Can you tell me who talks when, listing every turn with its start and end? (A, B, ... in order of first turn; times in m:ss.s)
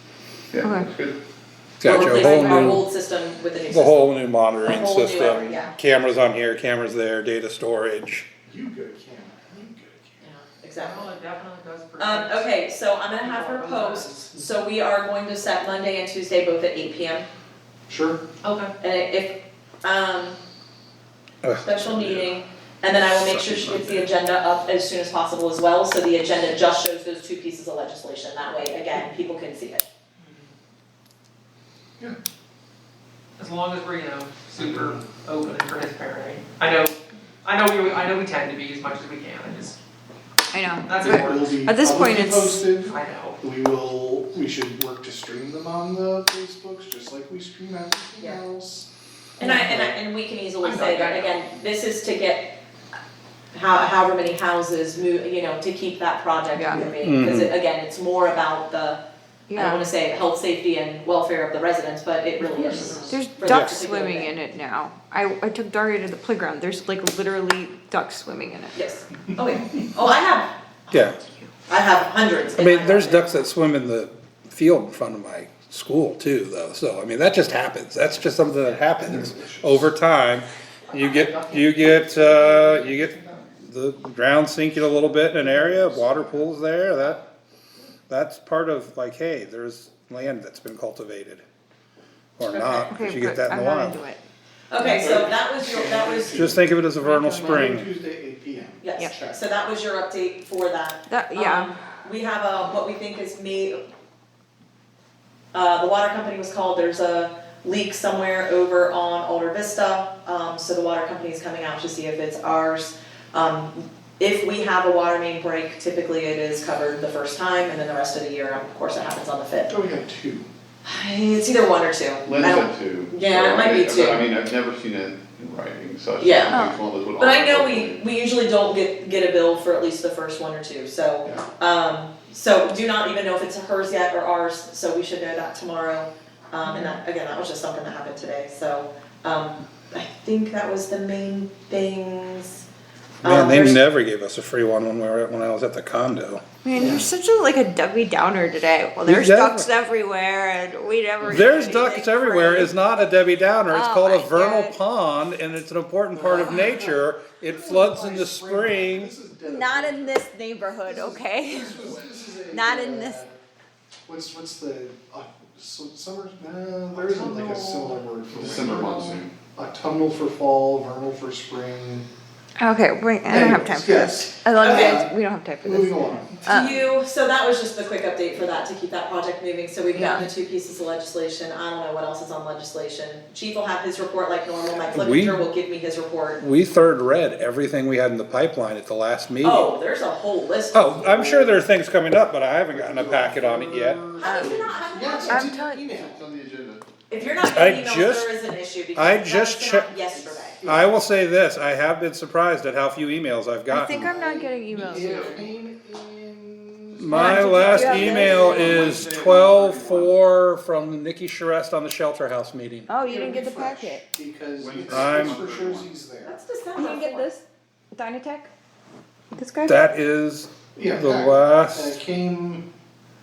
0:00.5-0:01.2 A
0:00.6-0:00.9 B
0:01.8-0:02.8 C
0:01.8-0:05.7 D
0:01.9-0:02.8 B
0:03.7-0:08.3 C
0:08.5-0:10.2 E
0:10.2-0:11.1 D
0:10.8-0:12.5 F
0:12.0-0:17.3 D
0:13.2-0:14.4 F
0:17.9-0:18.2 E
0:18.4-0:18.7 F
0:18.8-0:20.4 D
0:21.4-0:22.3 C
0:21.6-0:29.8 D
0:23.1-0:24.1 C
0:30.2-0:30.5 F
0:33.4-0:36.9 F
0:34.6-0:35.0 E
0:37.4-0:39.8 F
0:40.5-0:42.7 B
0:40.8-0:41.8 F
0:41.0-0:48.9 E
0:42.7-0:43.4 F
0:49.4-0:52.6 D
0:49.4-0:49.8 B
0:50.6-0:51.3 F
0:53.5-0:59.0 D
0:56.5-0:56.9 B
0:57.0-0:57.6 C
0:59.5-0:59.9 B
0:59.6-1:04.3 D
1:02.6-1:08.8 B
1:03.5-1:03.8 C
1:08.8-1:11.1 D
1:10.9-1:11.2 C
1:11.7-1:13.4 D
1:12.6-1:27.3 C
1:19.0-1:19.9 E
1:21.6-1:23.4 E
1:24.7-1:26.5 E
1:28.1-1:31.4 C
1:32.4-1:34.0 C
1:32.5-1:32.8 D
1:32.9-1:34.2 B
1:34.7-1:36.4 D
1:34.8-1:39.4 E
1:36.3-1:37.9 C
1:38.8-1:43.8 D
1:41.1-1:41.8 B
1:45.5-1:59.7 D
1:59.7-2:00.5 E
2:00.8-2:04.3 D
2:02.2-2:08.0 A
2:06.2-2:06.7 D
2:06.5-2:06.8 B
2:07.2-2:22.7 D
2:23.2-2:23.8 D
2:23.2-2:26.4 C
2:26.6-2:32.6 B
2:29.0-2:29.7 C
2:31.2-2:39.1 C
2:31.8-2:32.7 D
2:33.7-2:34.8 B
2:36.1-2:40.3 E
2:39.4-2:41.8 B
2:40.8-2:43.4 E
2:42.5-2:43.2 B
2:44.1-2:52.1 E
2:47.0-2:49.3 A
2:52.6-2:56.8 B
2:53.3-2:55.1 E
2:54.6-2:55.0 D
2:55.6-2:56.5 E
2:56.5-3:06.4 D
2:59.9-3:00.3 B
3:04.9-3:05.5 C
3:06.4-3:09.7 C
3:09.4-3:11.2 D
3:10.7-3:14.0 C
3:11.1-3:11.7 E
3:12.7-3:16.2 E
3:14.2-3:15.5 D
3:14.2-3:14.7 B
3:15.3-3:15.9 B
3:16.0-3:16.8 A
3:17.1-3:20.6 D
3:17.4-3:18.4 C
3:18.9-3:20.0 C
3:20.1-3:21.0 E
3:20.6-3:24.1 C
3:23.7-3:25.4 B
3:23.9-3:29.0 E
3:27.0-3:32.9 C
3:27.1-3:29.0 B
3:28.2-3:30.2 A
3:32.9-3:34.0 B
3:33.0-3:36.4 E
3:34.6-3:35.9 A
3:34.9-3:35.4 C
3:36.2-3:37.3 D
3:36.8-3:38.5 B
3:39.3-3:39.8 B
3:39.7-3:42.0 C
3:40.8-3:42.7 E